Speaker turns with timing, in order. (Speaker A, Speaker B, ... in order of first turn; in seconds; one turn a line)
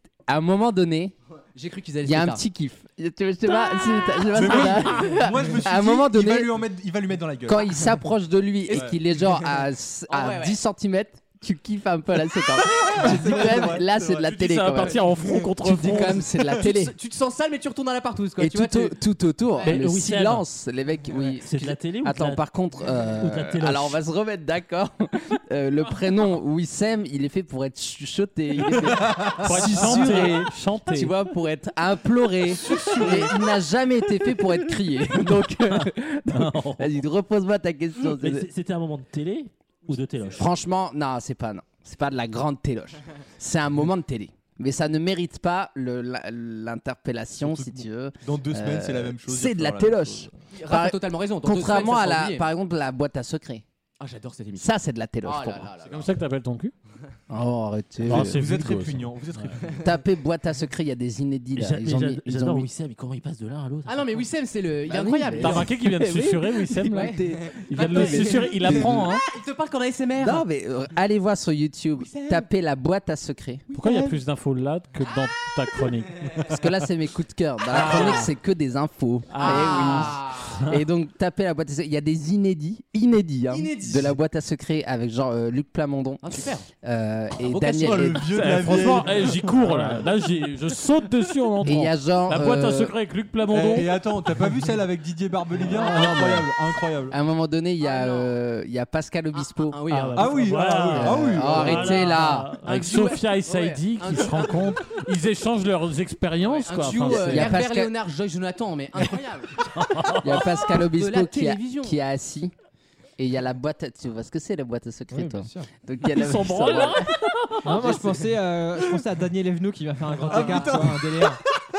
Speaker A: 0.3-1.1
Speaker B: 1.5-2.4
Speaker A: 2.0-6.6
Speaker C: 4.3-7.8
Speaker A: 7.5-15.0
Speaker B: 8.7-8.9
Speaker C: 8.7-9.0
Speaker B: 10.1-10.6
Speaker C: 12.7-14.3
Speaker D: 14.2-16.3
Speaker A: 15.6-16.9
Speaker B: 16.4-18.9
Speaker A: 18.4-38.5
Speaker E: 19.6-20.4
Speaker E: 21.4-22.4
Speaker E: 23.2-24.0
Speaker C: 28.7-30.1
Speaker D: 29.4-31.1
Speaker C: 32.5-33.4
Speaker D: 36.4-36.7
Speaker E: 38.0-40.5
Speaker A: 40.4-53.6
Speaker C: 47.4-50.3
Speaker B: 50.5-52.4
Speaker B: 54.0-54.7
Speaker A: 54.6-55.7
Speaker B: 55.2-56.1
Speaker D: 55.8-56.7
Speaker A: 57.3-58.5
Speaker D: 58.0-59.1
Speaker C: 58.1-59.9
Speaker A: 59.8-62.7
Speaker E: 61.5-64.2
Speaker B: 63.9-65.7
Speaker A: 64.9-69.0
Speaker D: 65.4-69.2
Speaker B: 66.9-70.4
Speaker A: 70.2-73.7
Speaker B: 72.0-72.5
Speaker D: 73.7-76.5
Speaker B: 73.8-74.1
Speaker A: 76.4-88.3
Speaker D: 77.7-78.3
Speaker D: 79.3-80.0
Speaker B: 79.4-80.6
Speaker B: 83.5-84.2
Speaker B: 86.2-86.7
Speaker B: 87.5-88.2
Speaker C: 87.5-89.9
Speaker D: 88.3-93.9
Speaker A: 91.6-92.9
Speaker C: 93.5-97.2
Speaker A: 95.7-96.4
Speaker A: 97.1-99.8
Speaker B: 97.8-98.3
Speaker B: 99.3-100.3
Speaker E: 99.9-102.6
Speaker C: 100.2-102.2
Speaker A: 100.8-102.5
Speaker B: 101.6-101.9
Speaker D: 102.5-107.6
Speaker B: 102.6-104.8
Speaker B: 106.4-112.0
Speaker A: 106.8-107.9
Speaker D: 109.8-110.2
Speaker A: 110.2-112.5
Speaker A: 113.2-117.1
Speaker F: 115.1-115.7
Speaker D: 116.1-117.8
Speaker F: 117.6-121.4
Speaker C: 120.3-121.0
Speaker B: 120.3-120.7